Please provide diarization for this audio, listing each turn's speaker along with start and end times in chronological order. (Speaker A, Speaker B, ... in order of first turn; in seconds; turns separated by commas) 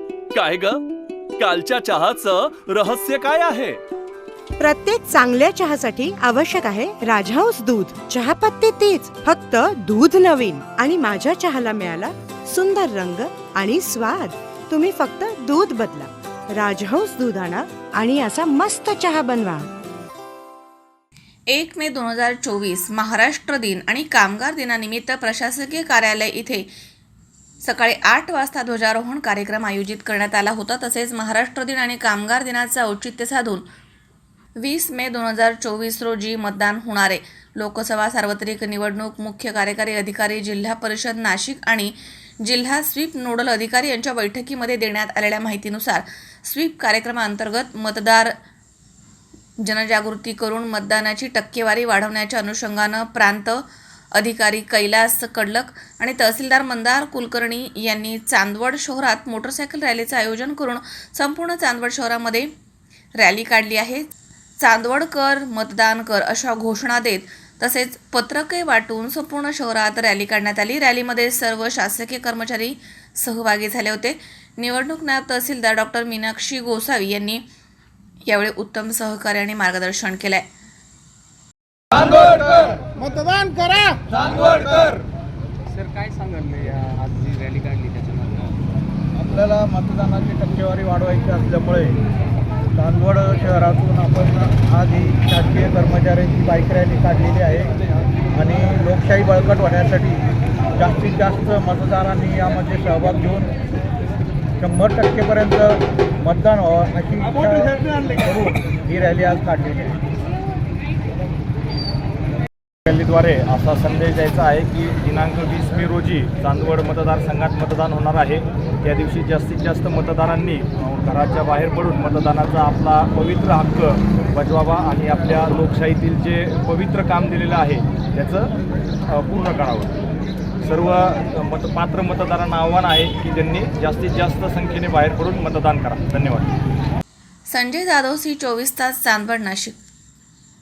Speaker A: 0.3-0.8, Speaker A: 1.4-3.8, Speaker B: 4.6-19.7, Speaker C: 21.5-26.7, Speaker C: 27.6-33.6, Speaker C: 34.6-48.3, Speaker C: 49.6-53.6, Speaker C: 54.1-62.5, Speaker C: 63.2-77.5, Speaker C: 78.3-80.5, Speaker D: 82.0-82.7, Speaker D: 83.3-84.9, Speaker E: 85.7-88.6, Speaker D: 89.2-92.0, Speaker D: 92.8-97.7, Speaker D: 98.3-100.2, Speaker D: 100.8-103.5, Speaker D: 104.6-110.0, Speaker F: 112.9-128.5, Speaker F: 129.1-129.9, Speaker F: 130.6-136.5, Speaker C: 137.5-139.8